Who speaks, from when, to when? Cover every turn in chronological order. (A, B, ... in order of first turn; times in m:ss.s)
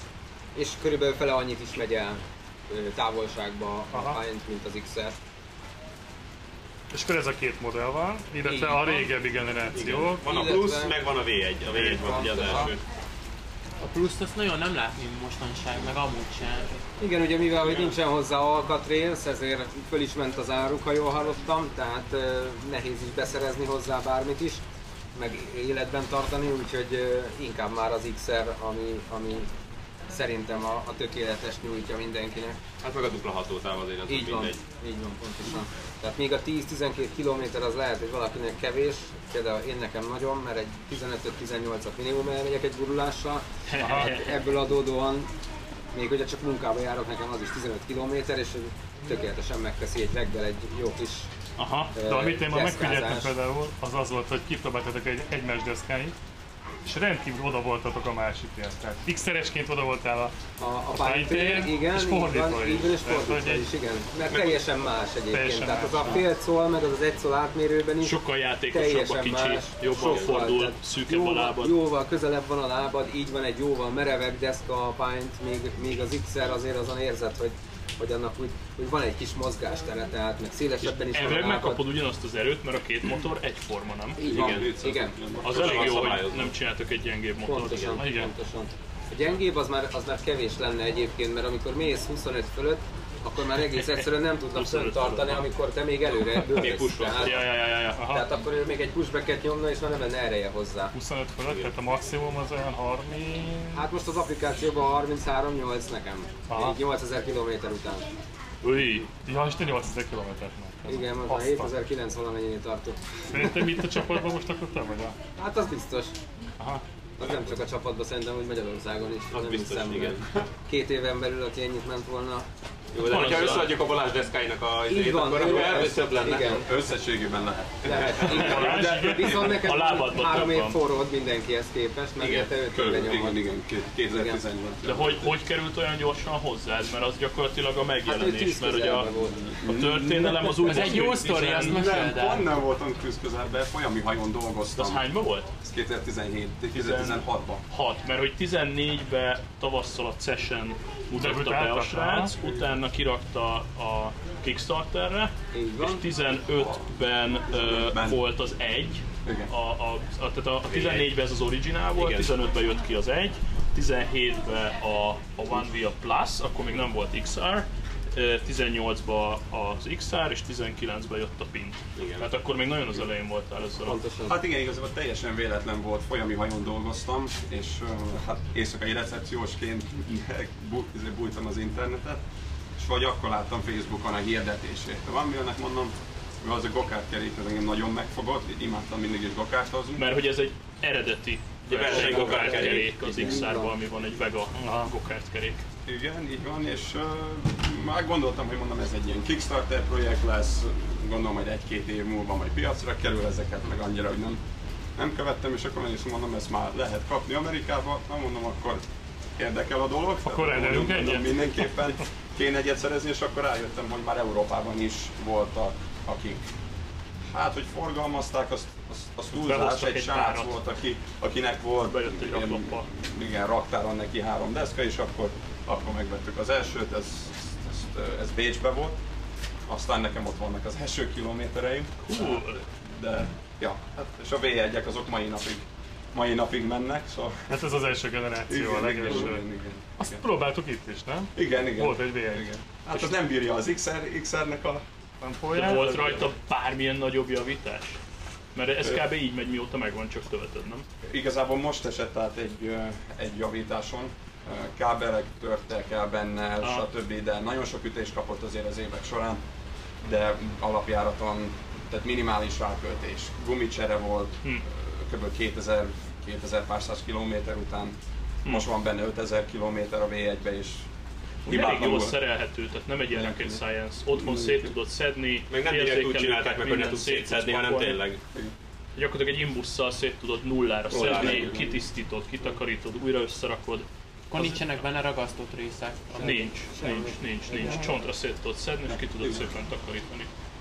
0:00.5-0:05.2 A
0:03.9-0:04.2 B
0:06.9-0:10.2 B
0:08.4-0:08.9 A
0:09.7-0:12.8 C
0:10.2-0:11.0 A
0:11.7-0:12.8 A
0:13.8-0:16.8 D
0:17.0-0:24.6 A
0:25.1-0:29.5 A
0:30.1-0:32.6 A
0:32.8-0:34.6 C
0:34.1-0:45.3 A
0:43.7-0:44.3 E
0:43.8-0:44.1 B
0:45.9-0:51.3 A
0:51.6-0:51.9 E
0:51.9-0:53.3 A
0:52.0-0:56.1 B
0:56.8-1:00.3 B
1:00.6-1:21.8 A
1:00.9-1:03.7 B
1:05.3-1:06.2 B
1:08.0-1:11.7 E
1:10.0-1:10.3 C
1:20.8-1:24.2 E
1:24.2-1:25.2 A
1:24.2-1:24.7 C
1:24.2-1:26.1 F
1:25.4-1:28.1 E
1:25.4-1:26.5 C
1:27.4-1:40.9 A
1:28.0-1:28.3 B
1:34.5-1:35.4 E
1:36.5-1:37.4 C
1:37.2-1:38.0 E
1:37.9-1:38.2 B
1:40.9-1:43.8 B
1:43.7-1:48.1 A
1:46.5-1:46.8 B
1:48.6-1:49.1 E
1:49.2-1:51.7 B
1:50.9-1:53.8 A
1:53.3-1:55.2 B
1:55.4-1:56.1 A
1:57.2-2:02.4 A
1:59.3-2:00.2 C
2:02.9-2:06.7 C
2:03.0-2:03.8 E
2:04.9-2:06.7 A
2:05.5-2:08.4 F
2:07.8-2:13.4 A
2:08.2-2:10.8 E
2:08.3-2:09.5 B
2:12.2-2:12.5 C
2:12.7-2:15.3 F
2:14.1-2:14.4 A
2:14.8-2:19.1 E
2:18.0-2:19.6 A
2:19.4-2:25.0 F
2:19.6-2:22.1 E
2:20.6-2:22.4 D
2:24.8-2:25.5 E
2:25.6-2:27.6 F
2:26.7-2:54.0 E
2:31.2-2:32.3 B
2:35.5-2:36.0 A
2:37.5-2:38.2 F
2:39.2-2:39.5 F
2:40.7-2:41.1 C
2:42.0-2:42.3 C
2:52.0-2:52.2 C
2:53.8-2:54.4 A
2:54.3-3:02.2 F
3:02.8-3:10.0 F
3:10.0-3:15.6 E
3:11.7-3:12.9 C
3:11.8-3:13.7 A
3:14.6-3:14.9 B
3:15.8-3:24.4 F
3:25.0-3:28.8 F
3:29.4-3:36.4 F
3:30.2-3:31.5 B
3:37.3-3:49.0 F
3:39.4-3:40.5 E
3:41.9-3:42.8 E
3:49.7-3:57.6 F
3:52.0-3:52.6 E
3:57.5-3:59.4 B
3:58.5-4:00.2 F
4:00.0-4:02.4 B
4:01.3-4:04.8 F
4:05.2-4:06.2 B
4:05.5-4:08.0 E
4:08.5-4:10.8 E
4:11.0-4:19.4 F
4:20.0-4:30.8 F
4:31.4-4:32.2 F
4:31.4-4:38.0 E
4:33.1-4:33.6 F
4:34.1-4:34.7 F
4:35.5-4:38.2 C
4:39.0-4:44.8 E
4:40.9-4:41.7 F
4:40.9-4:41.5 C
4:44.3-4:46.5 D
4:46.2-4:48.0 A
4:46.2-4:50.3 E
4:48.9-4:49.4 F